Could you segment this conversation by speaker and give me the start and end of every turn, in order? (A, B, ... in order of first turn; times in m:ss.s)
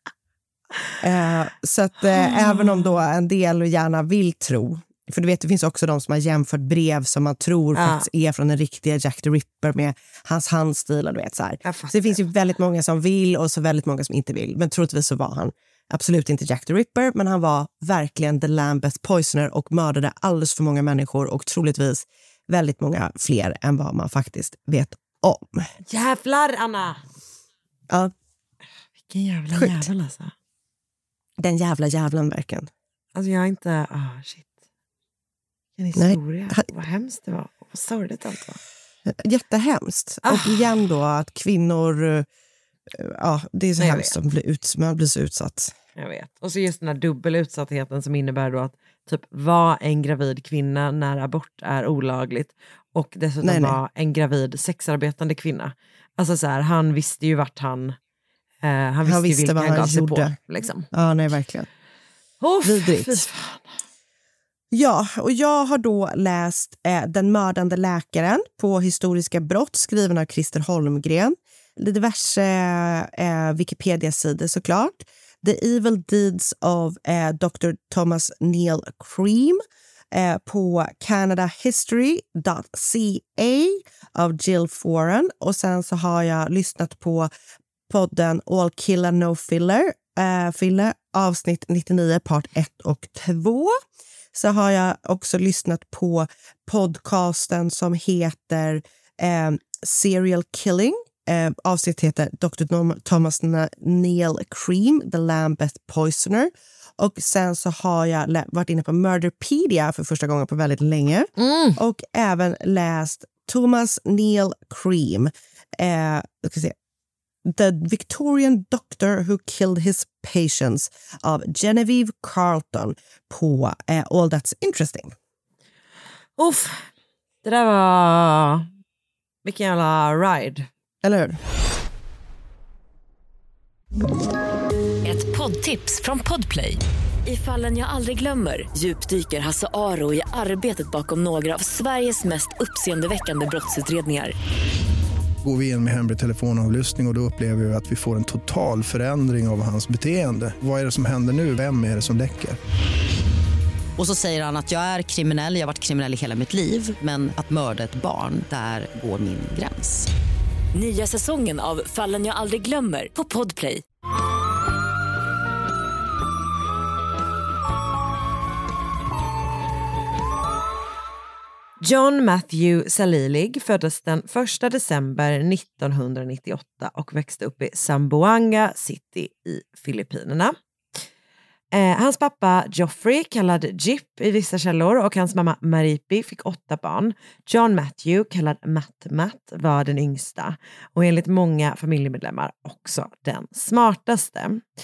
0:01.0-0:25.7 A
0:02.4-0:02.9 B
0:07.8-0:08.1 B
0:11.6-0:12.2 B
0:25.9-0:27.0 B
0:29.1-0:30.3 B
0:29.5-0:29.9 A
0:31.4-0:32.7 A
0:33.2-0:34.5 B
0:35.8-0:38.6 B
0:36.0-0:36.6 A
0:39.1-0:42.3 A
0:40.3-0:40.6 B
0:42.9-0:45.7 A
0:43.8-0:44.2 B
0:46.0-0:58.0 B
0:53.4-0:53.8 A
0:58.6-1:00.9 B
0:59.0-1:00.4 A
1:00.9-1:01.7 A
1:02.4-1:03.8 B
1:02.6-1:03.2 A
1:04.7-1:19.6 A
1:20.1-1:27.3 A
1:27.9-1:33.8 A
1:34.3-1:56.8 A
1:51.4-1:51.8 B
1:57.5-2:05.1 A
2:06.4-2:06.9 B
2:07.4-2:08.7 B
2:09.4-2:10.7 B
2:11.0-2:11.4 A
2:15.0-2:24.4 C
2:25.4-2:32.6 D
2:34.0-2:40.1 E
2:40.7-2:43.8 C
2:51.8-3:00.6 B
3:01.7-3:14.6 B